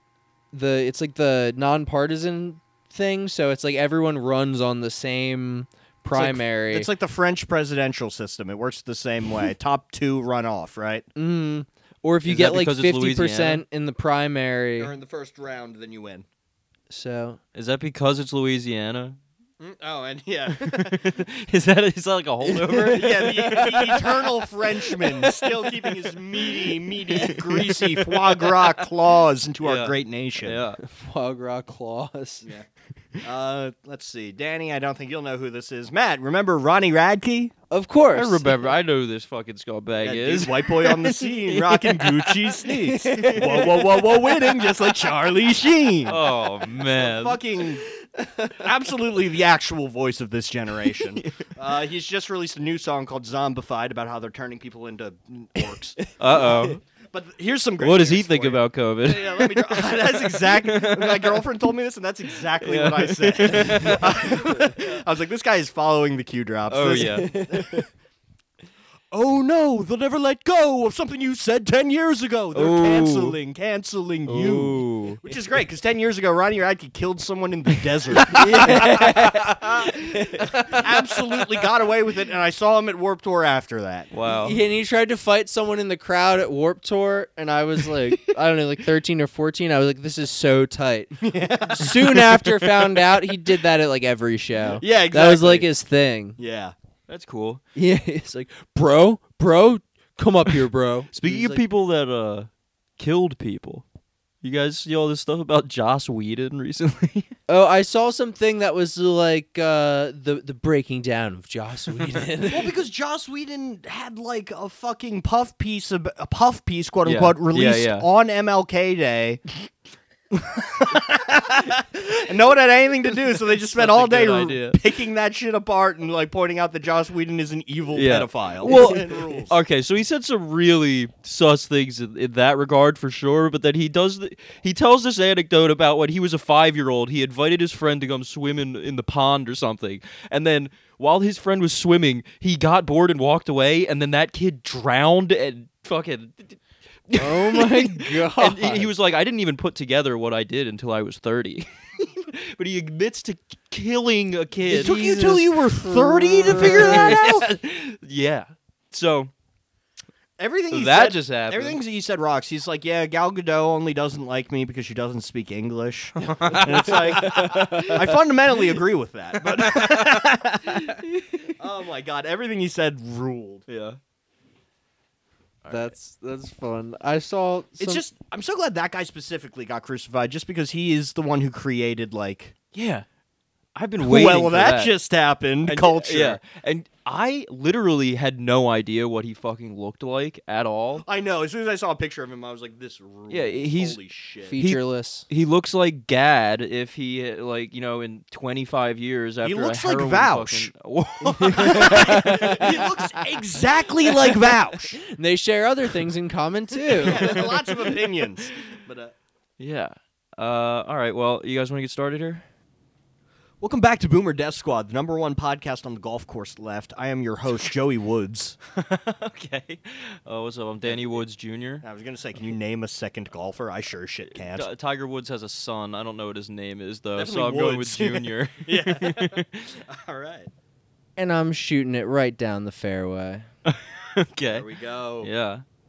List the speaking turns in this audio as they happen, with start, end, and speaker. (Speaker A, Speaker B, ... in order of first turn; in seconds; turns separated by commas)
Speaker A: 0.5-6.9, Speaker B: 6.1-11.1, Speaker A: 11.2-14.9, Speaker C: 12.3-13.6, Speaker B: 14.8-16.3, Speaker A: 16.9-17.4, Speaker C: 17.6-19.2, Speaker B: 19.6-21.1, Speaker C: 20.5-24.3, Speaker B: 22.5-30.6, Speaker C: 25.0-25.9, Speaker C: 26.5-28.8, Speaker C: 29.6-30.8, Speaker A: 30.8-32.5, Speaker B: 33.2-37.5, Speaker A: 37.7-38.5, Speaker C: 38.1-42.6, Speaker B: 40.0-47.8, Speaker A: 42.8-43.8, Speaker C: 43.2-43.7, Speaker C: 46.0-47.4, Speaker A: 48.2-48.6, Speaker B: 48.5-56.0, Speaker C: 51.0-51.4, Speaker A: 56.0-56.6, Speaker C: 56.2-56.8, Speaker B: 57.1-67.8, Speaker C: 57.8-61.5, Speaker C: 62.6-64.4, Speaker C: 66.7-67.3, Speaker A: 66.9-67.9, Speaker B: 69.1-79.0, Speaker C: 72.5-73.4, Speaker C: 74.3-75.2, Speaker C: 78.2-80.9, Speaker A: 78.3-79.6, Speaker A: 80.1-80.5, Speaker B: 80.6-84.1, Speaker C: 84.1-84.6, Speaker A: 84.4-91.1, Speaker B: 91.2-92.1, Speaker A: 91.7-96.4, Speaker C: 92.1-93.0, Speaker B: 94.8-95.7, Speaker B: 96.4-96.7, Speaker C: 97.1-97.6, Speaker A: 97.8-101.6, Speaker C: 101.1-103.9, Speaker C: 104.4-107.3, Speaker A: 107.5-112.7, Speaker B: 112.5-119.4, Speaker C: 117.0-118.1, Speaker B: 120.3-129.6, Speaker C: 123.7-124.8, Speaker C: 127.9-155.0, Speaker A: 147.2-148.9, Speaker A: 154.7-157.2, Speaker B: 154.7-157.5, Speaker C: 156.5-159.3, Speaker B: 160.4-171.0, Speaker C: 160.7-161.8, Speaker C: 166.2-168.2, Speaker A: 167.2-168.0, Speaker C: 169.4-171.5, Speaker B: 171.6-173.6, Speaker C: 173.7-174.0, Speaker C: 175.7-175.9, Speaker A: 175.7-178.0, Speaker B: 177.8-182.5, Speaker C: 182.7-183.1, Speaker C: 183.8-184.9, Speaker B: 184.0-186.4, Speaker C: 185.7-191.1, Speaker B: 191.0-194.6, Speaker C: 193.3-194.0, Speaker A: 194.5-195.3, Speaker C: 194.6-202.9, Speaker B: 199.4-200.7, Speaker B: 201.2-205.0, Speaker A: 201.4-202.8, Speaker A: 205.1-207.4, Speaker B: 207.0-209.2, Speaker C: 207.1-207.5, Speaker C: 209.6-212.4, Speaker B: 213.6-218.6, Speaker C: 218.7-221.8, Speaker B: 221.8-224.7, Speaker C: 224.4-229.8, Speaker B: 227.2-230.5, Speaker A: 231.2-233.5, Speaker C: 233.7-234.7, Speaker B: 234.5-235.3, Speaker C: 235.2-235.6